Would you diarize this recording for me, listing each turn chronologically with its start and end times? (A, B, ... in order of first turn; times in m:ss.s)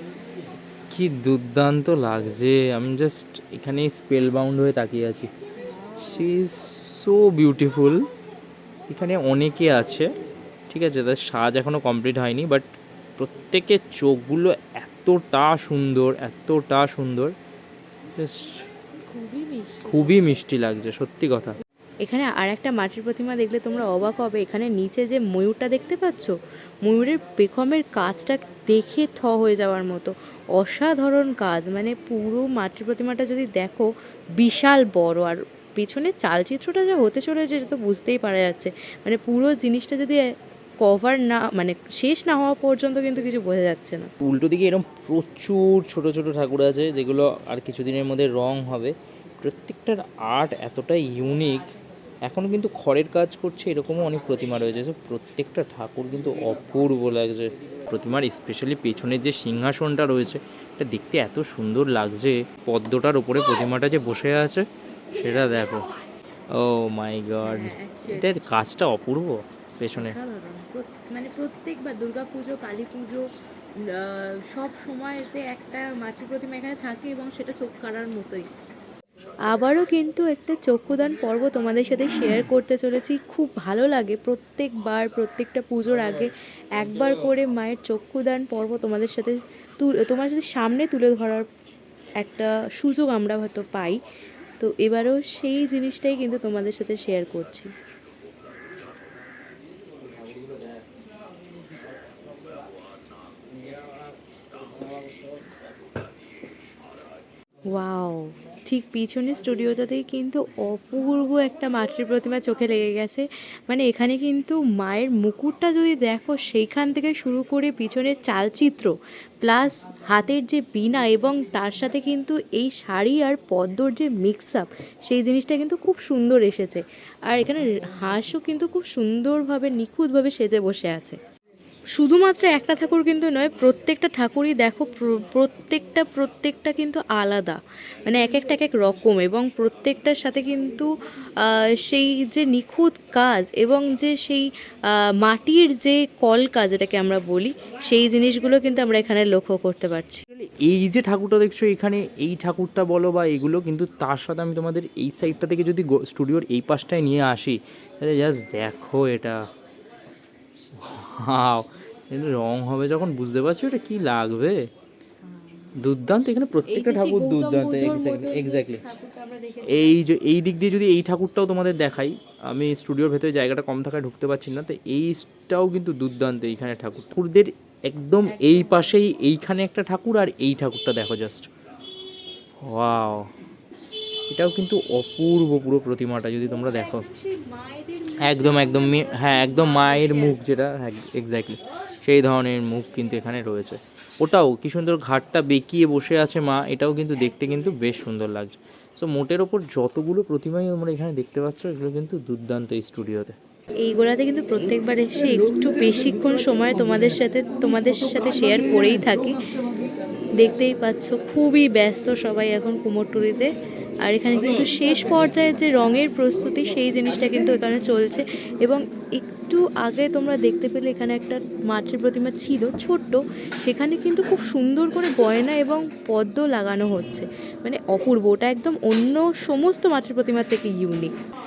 0:00.9-0:05.3 A
0:05.6-0:06.3 B
0:06.0-0:08.0 A
0:08.9-0:10.1 A
0:10.7-0:17.3 A
0:18.1-0:18.6 A
0:19.0-0:20.4 B
0:19.8-0:21.6 A
0:22.0-0:44.1 B
0:44.2-0:51.7 A
0:52.2-1:05.8 A
1:06.5-1:10.2 A
1:07.4-1:08.4 B
1:10.0-1:13.3 B
1:13.8-1:18.5 B
1:19.5-1:31.5 B
1:32.2-1:34.0 B
1:34.6-1:37.7 B
1:47.7-2:11.2 B
2:11.9-2:30.2 B
2:30.3-2:39.4 A
2:40.8-2:44.7 A
2:45.2-2:45.7 B
2:45.8-2:48.8 A
2:46.6-2:50.0 B
2:49.6-3:01.5 A
2:58.2-2:59.0 B
3:02.6-3:03.3 A
3:04.3-3:07.0 A
3:06.5-3:10.4 B
3:08.2-3:23.4 A
3:23.8-3:29.4 B
3:30.4-3:33.5 B
3:34.0-3:51.1 B